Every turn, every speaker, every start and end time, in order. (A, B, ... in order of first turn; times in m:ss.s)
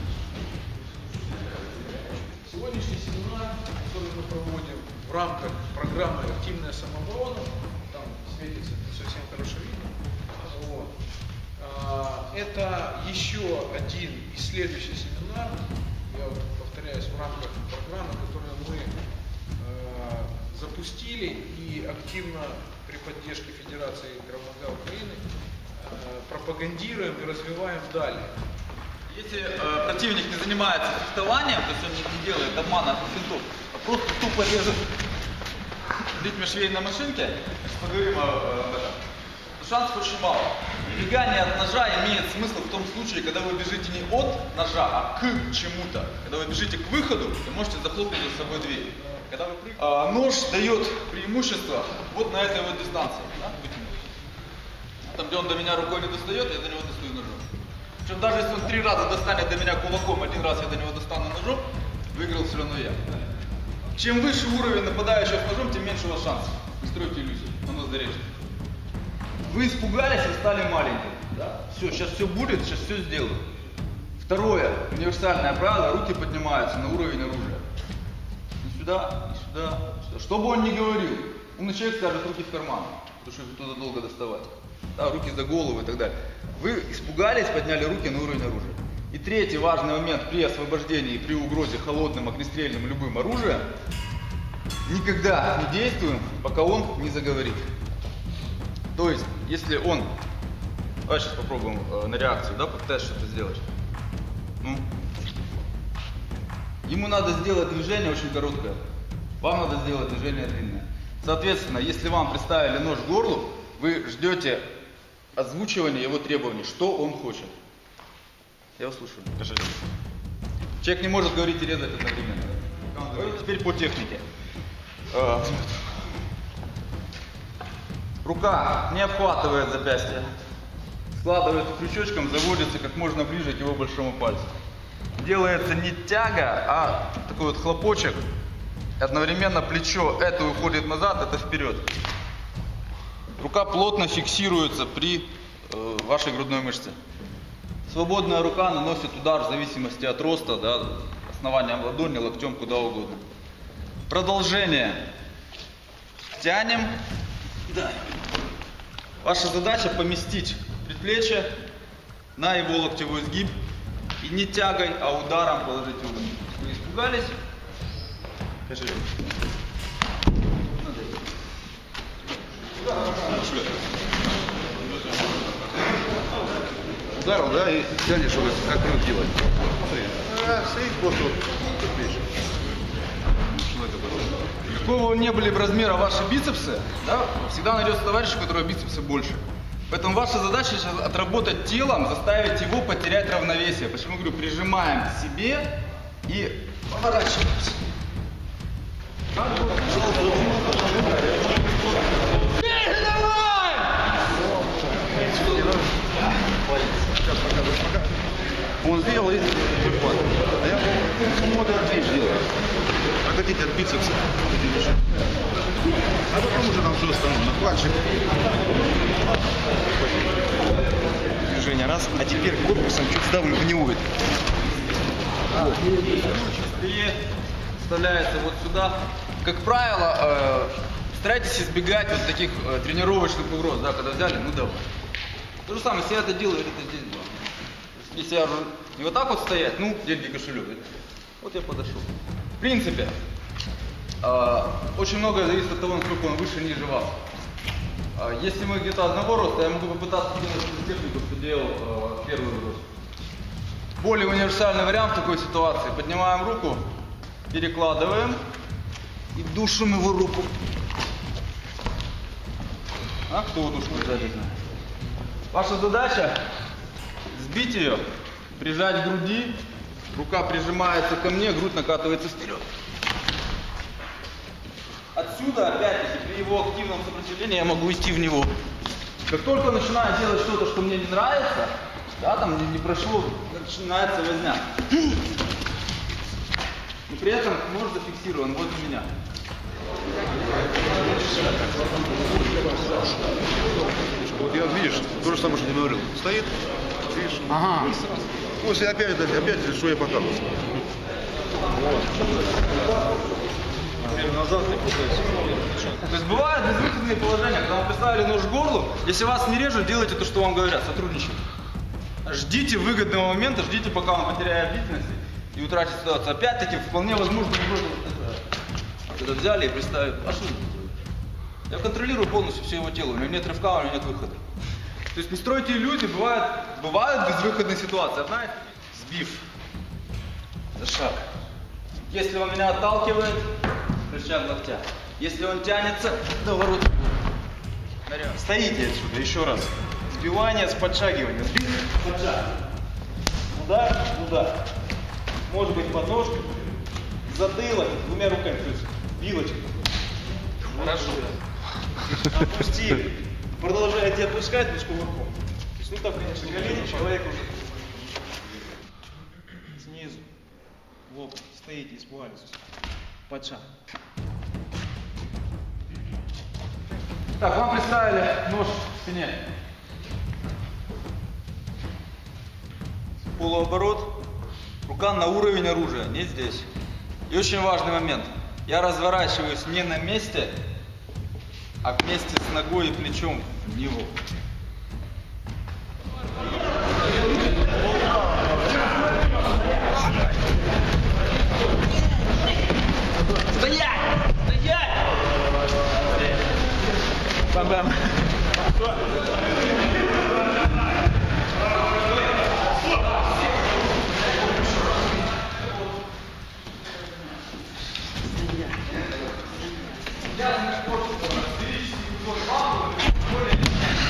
0:01.8-0:10.9 A
0:11.6-0:18.9 A
0:19.6-0:25.2 A
0:25.8-0:28.3 A
0:29.1-0:34.8 B
0:36.0-0:39.0 B
0:39.6-0:53.9 B
0:55.0-0:57.4 B
0:58.0-1:03.0 B
1:03.9-1:08.3 B
1:09.5-1:13.4 B
1:14.2-1:17.6 B
1:18.6-1:33.7 B
1:34.8-1:37.7 B
1:38.9-1:40.1 B
1:41.0-1:43.6 B
1:46.8-1:48.8 B
1:49.4-1:54.7 B
1:55.4-1:57.5 B
1:58.8-1:59.3 B
1:59.4-1:59.7 C
2:00.8-2:04.2 B
2:05.1-2:05.9 B
2:08.2-2:10.3 B
2:11.1-2:14.5 B
2:15.2-2:18.2 B
2:19.0-2:21.9 B
2:23.4-2:27.0 B
2:27.9-2:33.2 B
2:34.1-2:35.0 B
2:36.3-2:37.0 B
2:37.7-2:38.0 B
2:39.2-2:41.5 B
2:42.4-2:43.6 B
2:44.2-2:47.4 B
2:48.7-2:49.0 C
2:50.8-2:51.2 B
2:53.2-2:53.6 C
2:57.1-3:02.2 C
3:03.5-3:04.3 C
3:04.7-3:15.7 B
3:16.2-3:17.8 B
3:19.6-3:20.3 B
3:22.6-3:23.9 B
3:25.4-3:25.7 C
3:27.0-3:28.1 C
3:28.8-3:32.4 C
3:33.2-3:35.0 C
3:36.3-3:38.2 C
3:40.0-3:40.3 C
3:41.5-3:44.0 D
3:45.5-3:47.2 B
3:47.8-3:54.8 B
3:55.6-3:57.3 B
3:57.9-4:00.8 B
4:01.4-4:02.1 B
4:02.6-4:03.2 B
4:04.2-4:07.2 B
4:08.1-4:12.9 B
4:14.0-4:16.8 B
4:17.5-4:18.4 B
4:19.3-4:20.5 B
4:23.3-4:24.6 B
4:25.5-4:26.4 B
4:27.3-4:28.0 B
4:28.5-4:29.6 B
4:30.1-4:32.6 B
4:35.1-4:38.5 B
4:39.3-4:44.7 B
4:47.1-4:49.1 B
4:52.5-4:53.0 C
4:54.0-4:56.5 C
4:57.1-4:58.0 C
4:58.6-5:00.6 C
5:04.2-5:04.9 B
5:06.0-5:11.4 B
5:12.2-5:18.4 B
5:19.1-5:21.0 B
5:21.7-5:24.4 B
5:25.1-5:29.4 B
5:30.8-5:31.2 D
5:32.0-5:33.5 B
5:34.0-5:37.0 B
5:38.0-5:38.4 B
5:38.3-5:42.4 D
5:43.5-5:44.6 D
5:45.5-5:46.6 D
5:47.2-5:49.7 D
5:50.7-5:51.3 B
5:50.7-5:51.2 D
5:52.2-5:57.7 D
5:59.7-6:00.2 D
6:01.1-6:02.6 D
6:03.3-6:03.6 D
6:07.4-6:09.4 B
6:13.3-6:14.2 B
6:14.8-6:16.7 B
6:17.3-6:20.5 B
6:21.8-6:24.1 B
6:33.4-6:35.0 B
6:37.5-6:38.0 B
6:50.2-6:53.8 B